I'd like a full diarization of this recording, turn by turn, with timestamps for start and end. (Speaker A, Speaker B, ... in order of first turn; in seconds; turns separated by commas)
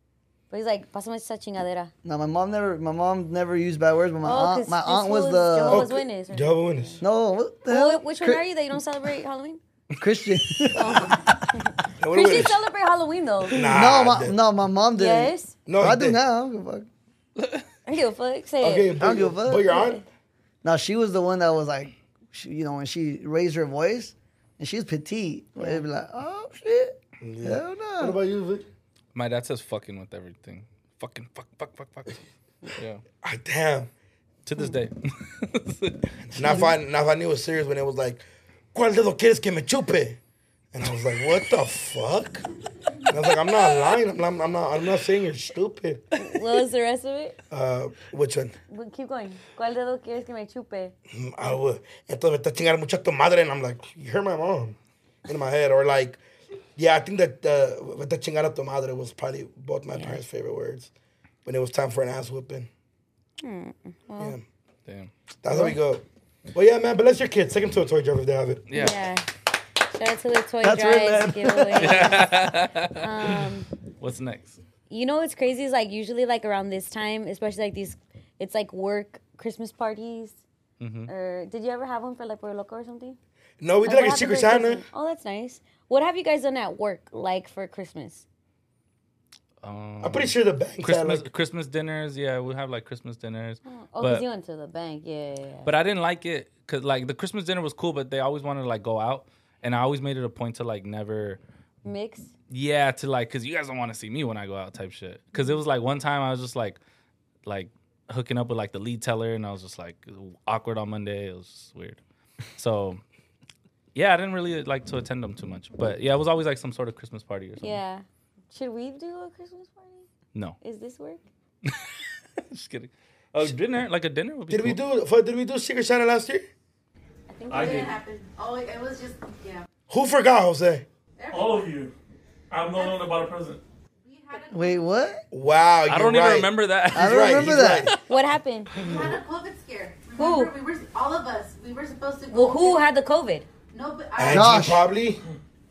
Speaker A: 0.5-1.9, Speaker B: 2.0-5.9, Speaker A: 4.2-7.0, Speaker C: 5.7-7.0, Speaker B: 7.0-8.4, Speaker A: 7.7-9.6, Speaker B: 10.0-11.4, Speaker A: 10.7-13.6, Speaker C: 12.0-12.6, Speaker C: 13.5-14.4, Speaker B: 13.7-16.9, Speaker A: 15.0-15.5, Speaker C: 15.7-16.2, Speaker D: 17.4-17.6, Speaker A: 17.9-18.9, Speaker C: 18.6-20.0, Speaker B: 19.0-19.8, Speaker A: 19.6-20.0, Speaker B: 20.6-28.2, Speaker A: 25.6-25.8, Speaker C: 27.2-28.7, Speaker D: 29.1-32.2, Speaker D: 32.8-33.0, Speaker C: 33.2-33.9, Speaker D: 34.4-36.2, Speaker C: 36.3-40.2, Speaker B: 36.4-36.7, Speaker C: 40.7-42.5, Speaker C: 43.0-46.0, Speaker A: 46.1-47.4, Speaker C: 47.5-48.5, Speaker A: 48.7-50.9, Speaker C: 51.1-56.2, Speaker C: 56.8-60.9, Speaker C: 61.4-62.7, Speaker A: 63.4-64.4, Speaker C: 64.2-64.4, Speaker C: 65.4-68.7, Speaker B: 65.5-65.8, Speaker D: 68.7-69.0, Speaker A: 68.7-69.3, Speaker A: 69.9-72.3, Speaker B: 70.6-72.2, Speaker D: 71.8-73.5, Speaker A: 73.0-73.7, Speaker D: 74.0-74.6, Speaker A: 74.9-80.4, Speaker D: 80.8-81.1, Speaker A: 81.1-83.2, Speaker C: 83.6-84.8, Speaker A: 83.8-88.2, Speaker D: 89.6-94.2, Speaker C: 90.0-91.2, Speaker A: 93.6-95.7, Speaker D: 95.6-101.4, Speaker A: 101.8-102.3, Speaker D: 102.5-106.8, Speaker A: 105.3-105.6, Speaker D: 107.4-112.0, Speaker D: 112.5-113.0, Speaker D: 113.9-117.8, Speaker A: 117.6-120.1, Speaker A: 120.6-121.2, Speaker D: 121.7-124.8, Speaker C: 124.5-126.5, Speaker A: 127.3-127.9, Speaker E: 127.5-127.8, Speaker F: 127.5-129.6, Speaker C: 129.9-130.8, Speaker F: 131.2-131.8, Speaker E: 131.3-131.9, Speaker E: 132.5-133.6, Speaker F: 132.7-133.1, Speaker F: 134.0-135.2, Speaker B: 134.5-135.2, Speaker C: 135.3-137.9, Speaker D: 135.9-137.6, Speaker B: 136.9-137.9, Speaker A: 138.1-138.7, Speaker F: 138.8-142.8, Speaker A: 140.1-140.5, Speaker A: 142.3-143.4, Speaker F: 143.7-144.7, Speaker C: 144.2-145.2, Speaker B: 144.3-144.8